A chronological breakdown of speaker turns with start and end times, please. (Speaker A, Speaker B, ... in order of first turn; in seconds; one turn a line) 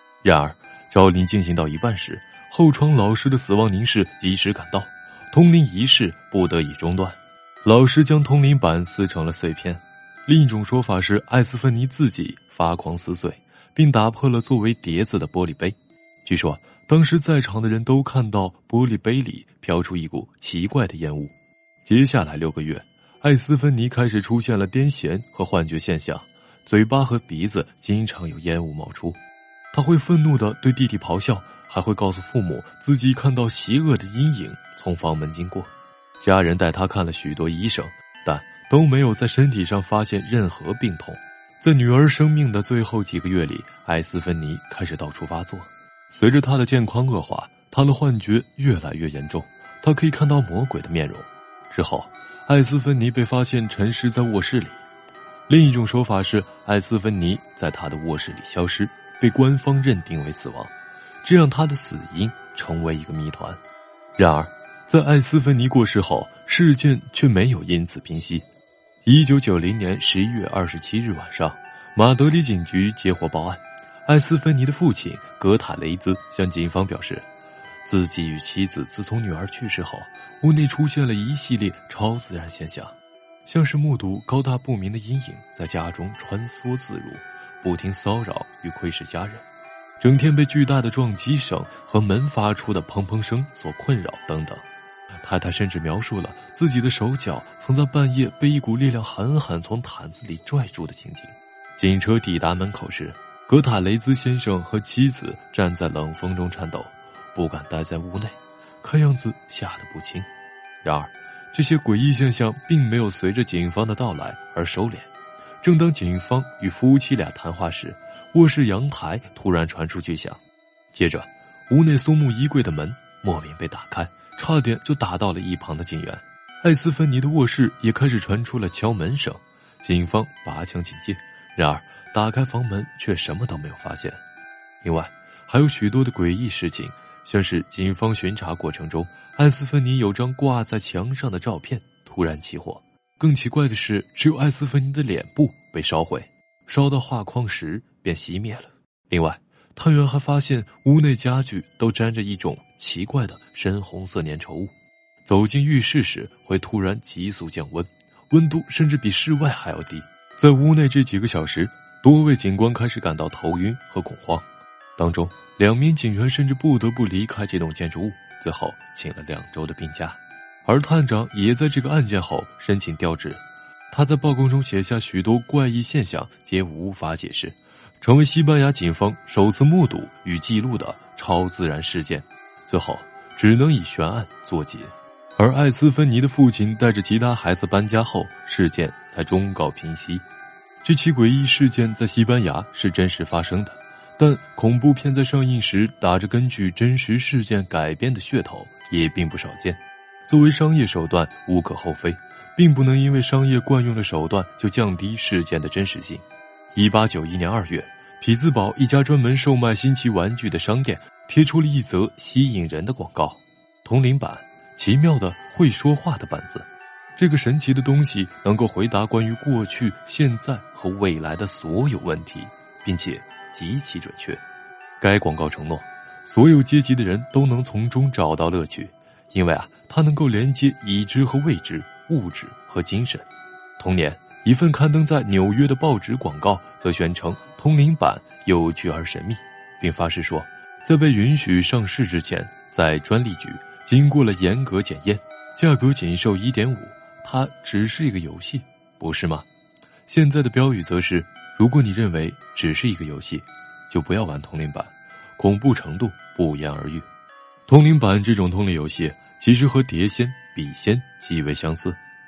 Speaker A: 0.2-21.3
Speaker A: 21.8-29.2
Speaker A: 29.7-54.8
Speaker A: 55.5-63.6
Speaker A: 64.2-68.4
Speaker A: 69.0-77.2
Speaker A: 77.8-82.9
Speaker A: 83.4-89.4
Speaker A: 90.0-94.6
Speaker A: 95.2-110.3
Speaker A: 110.8-115.1
Speaker A: 115.6-120.4
Speaker A: 120.9-134.2
Speaker A: 134.8-154.7
Speaker A: 155.2-164.4
Speaker A: 165.0-190.2
Speaker A: 190.8-206.2
Speaker A: 206.8-224.4
Speaker A: 225.0-233.2
Speaker A: 233.8-249.4
Speaker A: 250.1-257.1
Speaker A: 257.7-262.0